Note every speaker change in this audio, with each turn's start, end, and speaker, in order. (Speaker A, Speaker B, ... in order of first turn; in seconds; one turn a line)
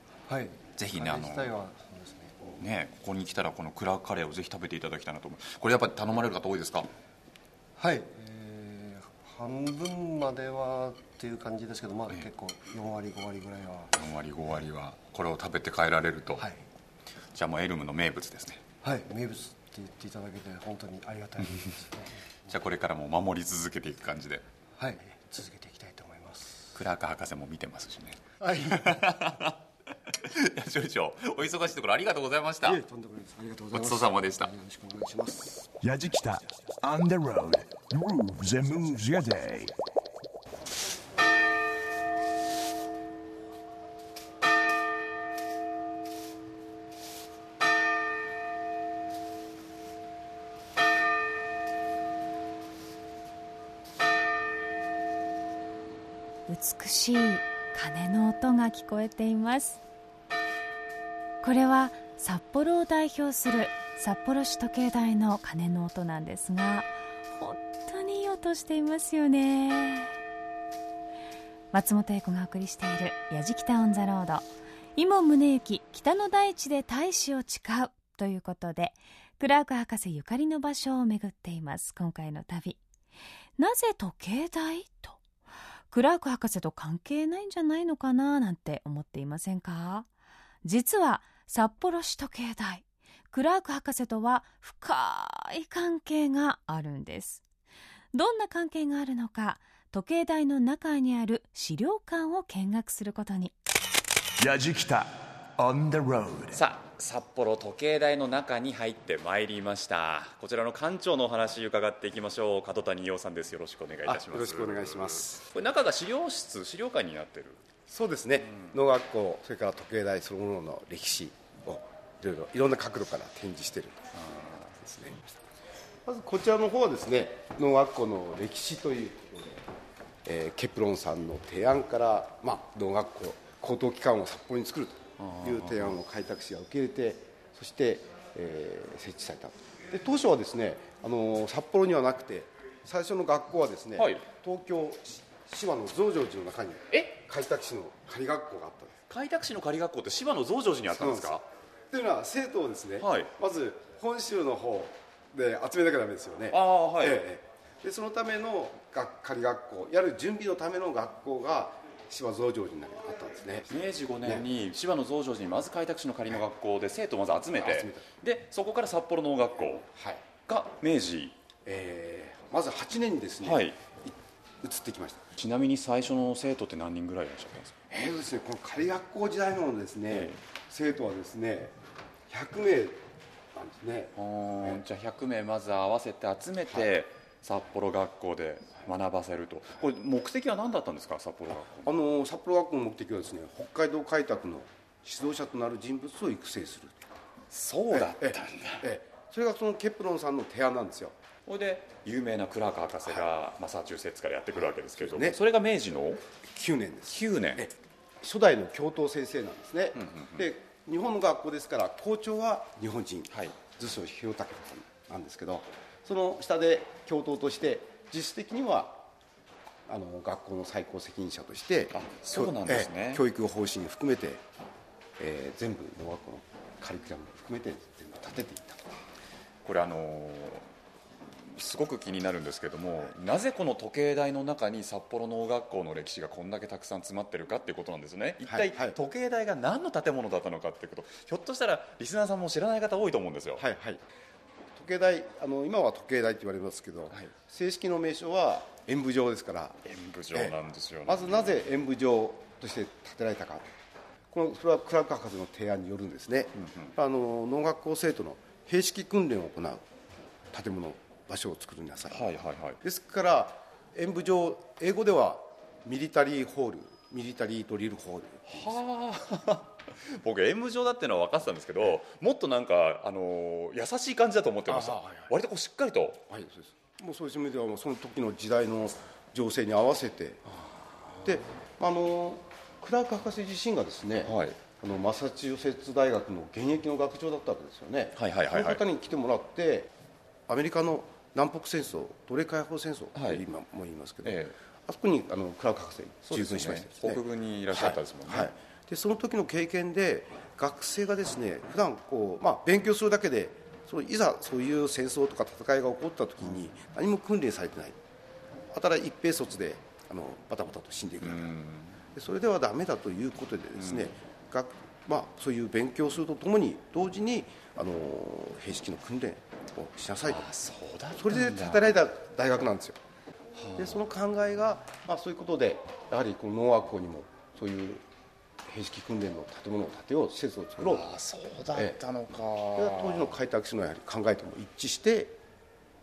Speaker A: 0.3-2.6
Speaker B: 0.8-1.6
Speaker B: 2.6-6.9
Speaker A: 7.8-13.9
Speaker B: 13.9-16.5
Speaker A: 16.4-16.6
Speaker B: 17.4-18.6
Speaker A: 18.8-22.5
Speaker B: 22.5-24.4
Speaker A: 24.8-26.8
Speaker B: 26.7-29.6
Speaker A: 28.4-29.0
Speaker B: 30.1-32.8
Speaker A: 32.6-35.7
Speaker B: 33.7-34.5
Speaker C: 35.8-39.7
Speaker D: 56.5-59.8
Speaker D: 61.4-70.1
Speaker D: 71.7-82.8
Speaker D: 83.6-85.2
Speaker D: 85.9-90.1
Speaker D: 90.6-97.4
Speaker D: 98.1-103.5
Speaker C: 104.4-106.6
Speaker B: 106.5-117.6
Speaker E: 114.1-115.4
Speaker E: 117.9-125.2
Speaker B: 118.5-118.8
Speaker B: 124.2-124.7
Speaker E: 126.1-129.7
Speaker E: 130.2-148.9
Speaker B: 135.2-136.0
Speaker B: 144.0-144.3
Speaker B: 149.1-151.4
Speaker E: 150.9-163.7
Speaker B: 153.0-153.3
Speaker B: 156.5-157.2
Speaker B: 163.7-169.9
Speaker E: 167.6-168.1
Speaker E: 169.9-170.2
Speaker B: 170.5-171.3
Speaker E: 171.7-175.2
Speaker B: 173.4-173.8
Speaker B: 175.4-177.8
Speaker E: 177.9-181.8
Speaker B: 180.1-180.4
Speaker E: 182.3-183.0
Speaker E: 183.5-184.8
Speaker B: 184.2-191.9
Speaker E: 191.9-197.0
Speaker B: 197.5-198.9
Speaker E: 197.9-201.1
Speaker B: 201.5-206.2
Speaker E: 204.8-205.4
Speaker E: 206.5-219.1
Speaker B: 207.1-207.7
Speaker B: 209.9-210.5
Speaker B: 213.3-213.6
Speaker E: 219.9-224.4
Speaker B: 221.9-223.2
Speaker E: 225.2-228.8
Speaker B: 229.7-230.7
Speaker B: 231.4-243.6
Speaker E: 238.4-238.9
Speaker E: 243.6-244.0
Speaker E: 244.8-249.8
Speaker B: 249.8-251.5
Speaker E: 250.3-253.7
Speaker E: 254.3-259.9
Speaker B: 256.6-256.9
Speaker E: 260.5-262.3
Speaker B: 262.1-262.8
Speaker E: 262.8-268.7
Speaker B: 268.5-276.2
Speaker E: 274.7-275.3
Speaker E: 276.3-280.4
Speaker E: 281.2-289.9
Speaker B: 284.2-284.6
Speaker B: 288.2-288.8
Speaker E: 290.5-308.0
Speaker B: 293.1-293.4
Speaker B: 294.2-294.6
Speaker B: 296.3-298.5
Speaker E: 308.7-311.5
Speaker B: 311.2-312.0
Speaker E: 312.1-320.4
Speaker B: 313.8-314.1
Speaker B: 320.2-321.9
Speaker E: 321.2-323.0
Speaker B: 323.6-324.0
Speaker E: 323.8-328.0
Speaker E: 328.7-331.1
Speaker B: 330.8-333.4
Speaker E: 332.8-335.4